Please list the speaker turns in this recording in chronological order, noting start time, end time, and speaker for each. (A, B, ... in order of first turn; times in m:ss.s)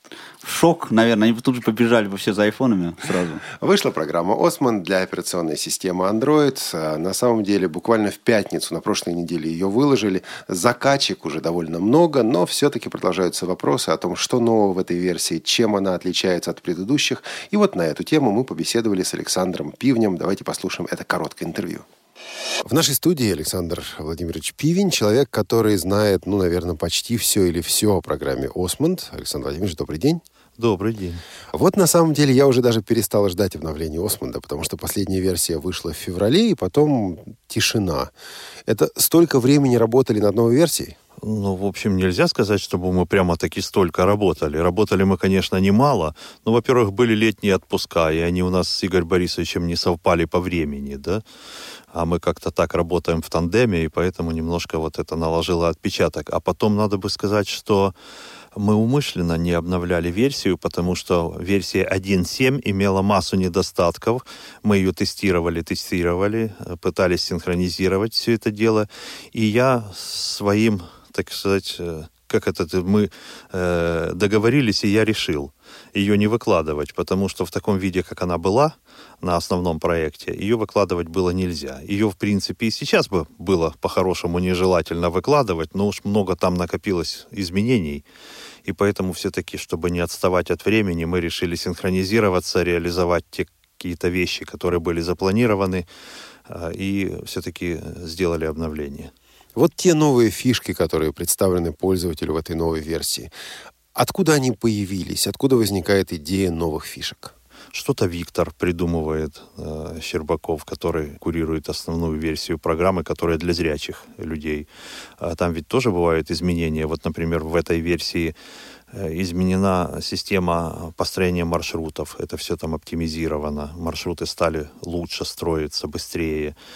0:00.4-0:03.5 A
0:03.5-0:21.9 B
0:22.6-0:30.2 B
0:30.6-0:31.2 C
0:31.5-0:38.1 B
0:38.7-0:41.0 B
0:41.2-0:51.2 C
0:51.9-0:58.0 C
0:58.6-1:28.0 C
1:28.6-1:35.9 C
1:36.5-1:39.1 C
1:39.6-1:43.3 B
1:44.0-1:47.4 B
1:47.7-1:54.7 C
1:55.2-1:58.4 C
1:58.9-2:06.6 C